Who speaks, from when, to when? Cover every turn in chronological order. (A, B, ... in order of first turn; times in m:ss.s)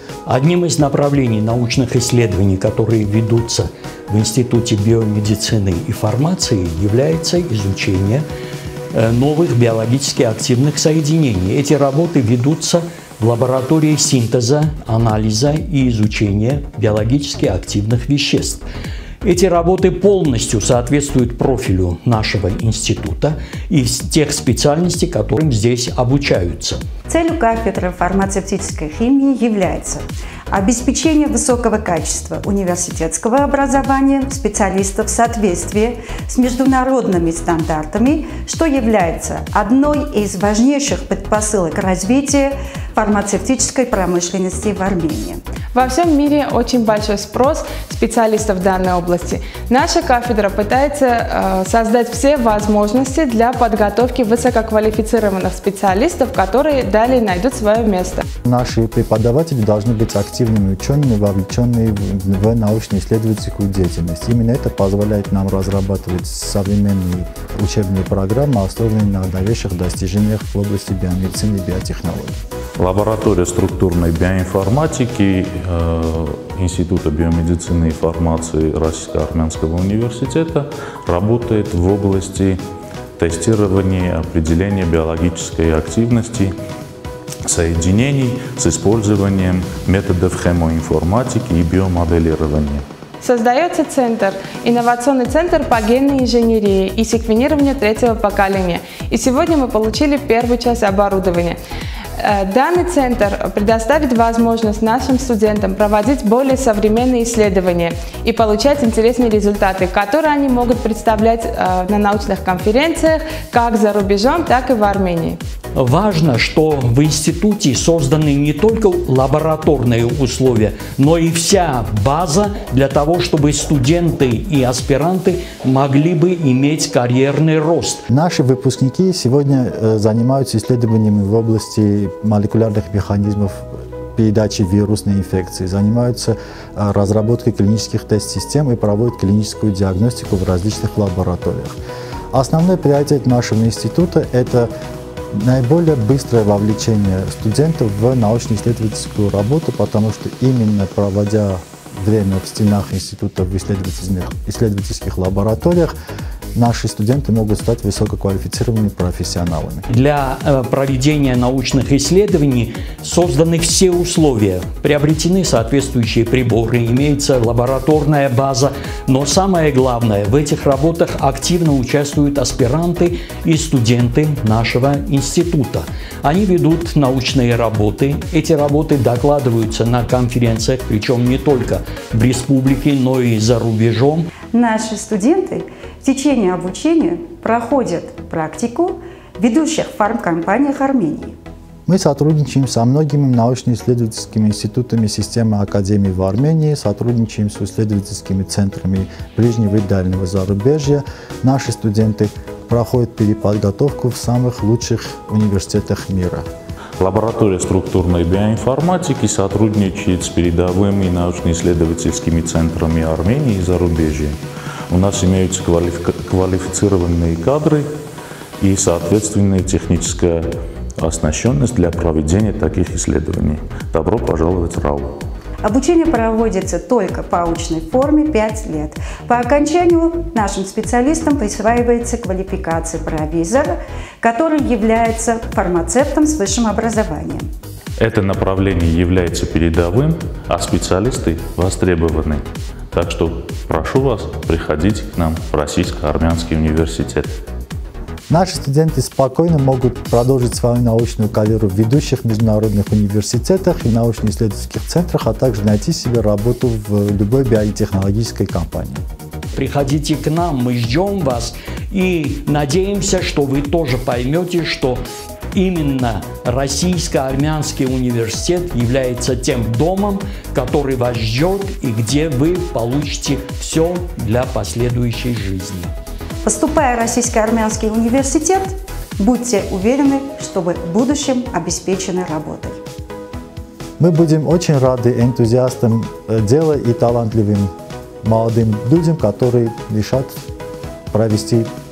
0:00.3-0:08.2 A
0:08.9-0:18.6 A
0:19.2-0:26.8 A
0:27.1-0:45.4 B
0:45.7-0:58.2 C
0:58.4-1:12.4 D
1:12.8-1:22.6 E
1:23.2-1:26.5 E
1:27.5-1:32.8 E
1:33.2-1:41.6 C
1:42.2-1:55.4 C
1:55.8-2:08.0 A
2:08.1-2:21.8 D
2:22.3-2:24.7 D
2:25.3-2:35.9 D
2:36.6-2:39.9 D
2:39.9-3:04.3 A
3:04.5-3:11.4 B
3:11.9-3:26.5 D
3:27.0-3:34.4 E
3:34.9-3:38.0 E
3:38.6-3:45.2 E
3:45.6-3:57.5 B
3:58.0-4:07.4 E
4:08.3-4:19.0 D
4:19.5-4:25.0 A
4:25.5-4:35.9 A
4:36.4-4:42.8 B
4:44.0-4:47.7 D
4:48.2-4:50.4 D
4:51.1-4:51.7 D